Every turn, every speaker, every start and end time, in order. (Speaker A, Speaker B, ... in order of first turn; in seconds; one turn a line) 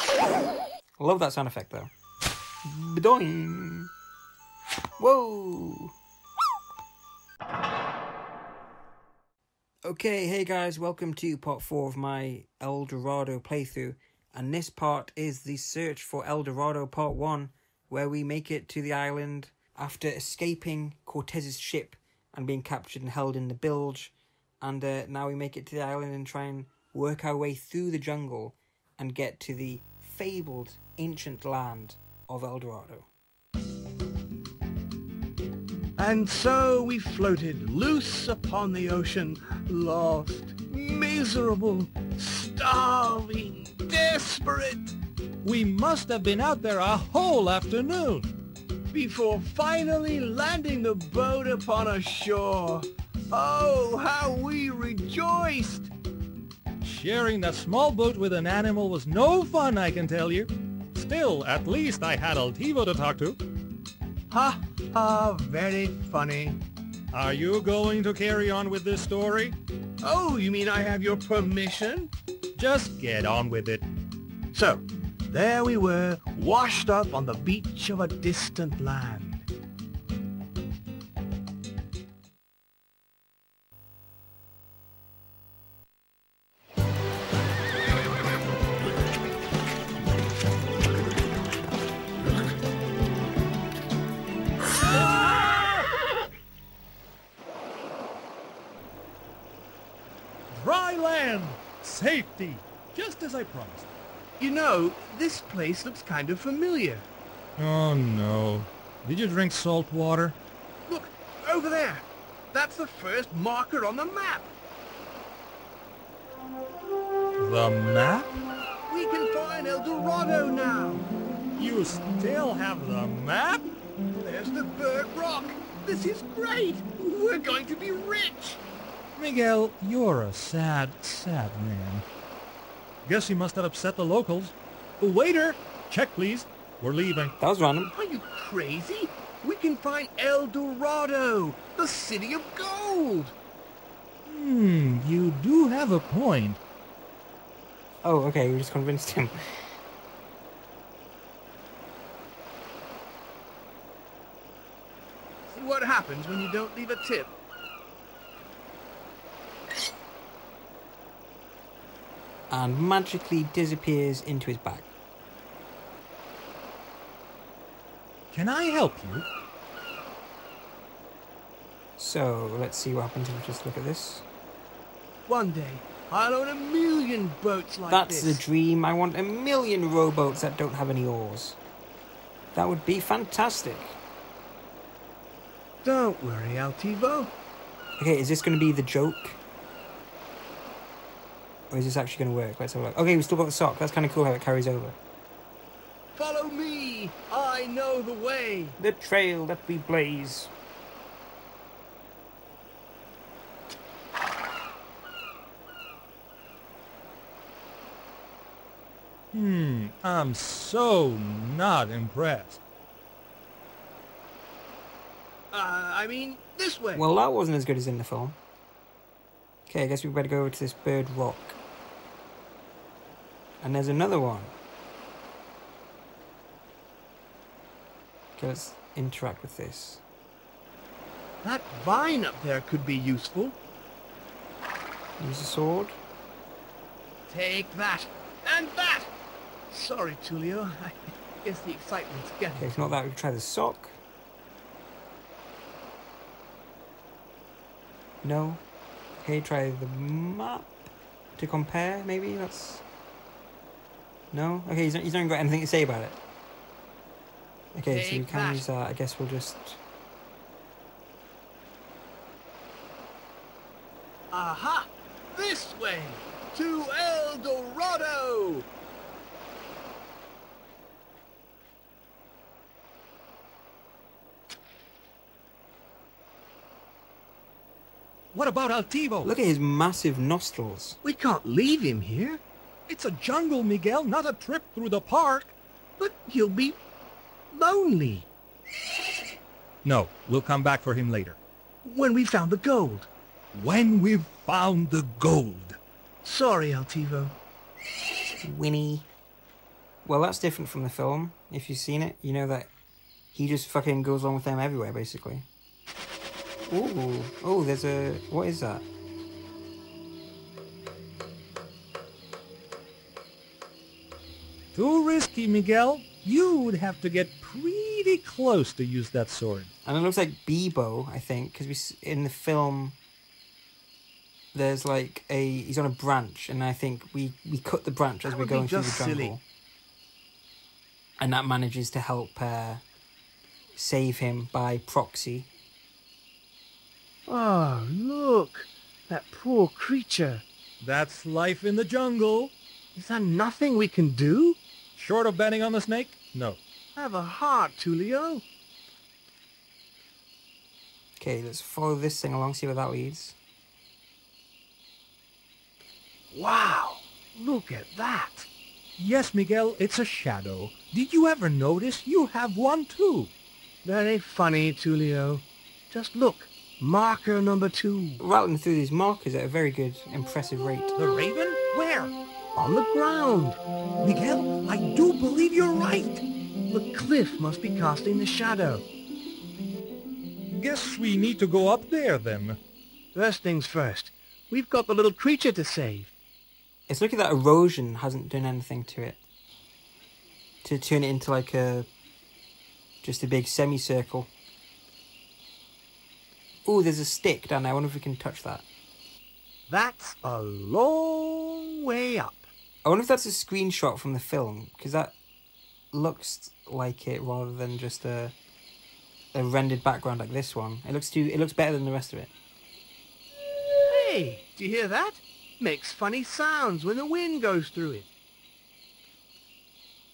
Speaker A: 1.0-1.9
Speaker A: 2.6-3.9
Speaker A: 5.0-5.9
Speaker A: 9.8-33.1
Speaker B: 36.0-45.0
Speaker C: 45.4-48.3
Speaker B: 48.9-55.9
Speaker C: 56.8-63.4
Speaker B: 64.3-66.6
Speaker C: 67.1-69.6
Speaker B: 70.0-72.1
Speaker C: 72.5-73.8
Speaker B: 74.5-79.5
Speaker C: 94.9-95.9
Speaker C: 100.5-103.9
Speaker B: 104.4-107.0
Speaker C: 107.6-110.4
Speaker B: 110.8-114.5
Speaker C: 117.4-118.4
Speaker B: 118.9-121.1
Speaker C: 121.5-123.7
Speaker B: 124.1-128.6
Speaker C: 129.2-132.0
Speaker C: 133.1-137.3
Speaker A: 137.4-137.9
Speaker B: 137.9-143.3
Speaker C: 144.2-146.6
Speaker A: 148.0-149.7
Speaker B: 155.5-157.3
Speaker A: 162.5-164.9
Speaker C: 168.3-169.3
Speaker A: 172.0-174.2
Speaker B: 175.2-178.4
Speaker A: 177.9-181.6
Speaker A: 182.5-184.0
Speaker B: 185.8-187.3
Speaker A: 188.0-189.4
Speaker A: 191.7-194.9
Speaker B: 196.2-198.8
Speaker A: 198.8-200.5
Speaker C: 209.3-212.6
Speaker B: 215.5-217.0
Speaker A: 216.9-218.4
Speaker A: 219.7-221.6
Speaker A: 223.6-224.5
Speaker A: 228.4-230.0
Speaker B: 231.4-233.6
Speaker A: 235.2-236.0
Speaker B: 237.3-239.1
Speaker B: 239.7-242.9
Speaker A: 242.5-244.0
Speaker A: 248.2-248.6
Speaker A: 249.2-250.7
Speaker A: 251.4-252.8
Speaker A: 254.3-256.2
Speaker A: 257.7-259.8
Speaker B: 257.9-258.7
Speaker B: 264.3-268.7
Speaker C: 278.3-279.3
Speaker A: 279.2-281.0
Speaker B: 281.0-282.4
Speaker C: 282.9-285.5
Speaker B: 286.0-286.8
Speaker B: 287.5-288.3
Speaker C: 289.8-291.4
Speaker B: 291.8-293.1
Speaker C: 293.5-295.8
Speaker B: 296.2-297.4
Speaker A: 298.4-299.1
Speaker A: 300.0-302.7
Speaker A: 303.3-305.4
Speaker A: 306.7-308.8
Speaker C: 314.7-319.7
Speaker A: 319.8-323.0
Speaker A: 324.5-329.4
Speaker B: 328.2-329.4
Speaker A: 331.2-332.8
Speaker A: 333.8-335.5
Speaker B: 337.3-340.4
Speaker C: 340.8-342.5
Speaker B: 342.9-344.6
Speaker C: 345.0-346.6
Speaker B: 346.9-348.4
Speaker A: 351.2-353.4
Speaker B: 356.3-358.5
Speaker C: 359.0-363.3
Speaker B: 363.8-368.2
Speaker A: 368.2-370.9
Speaker C: 370.9-372.1
Speaker B: 372.6-373.6
Speaker C: 374.0-376.2
Speaker B: 376.6-378.8
Speaker C: 380.5-382.6
Speaker B: 383.1-386.1
Speaker A: 386.9-389.2
Speaker A: 390.6-391.9
Speaker A: 393.0-394.3
Speaker A: 396.6-398.6
Speaker B: 399.7-402.5
Speaker A: 402.8-405.1
Speaker A: 405.9-408.3
Speaker A: 409.3-412.3
Speaker B: 413.8-418.1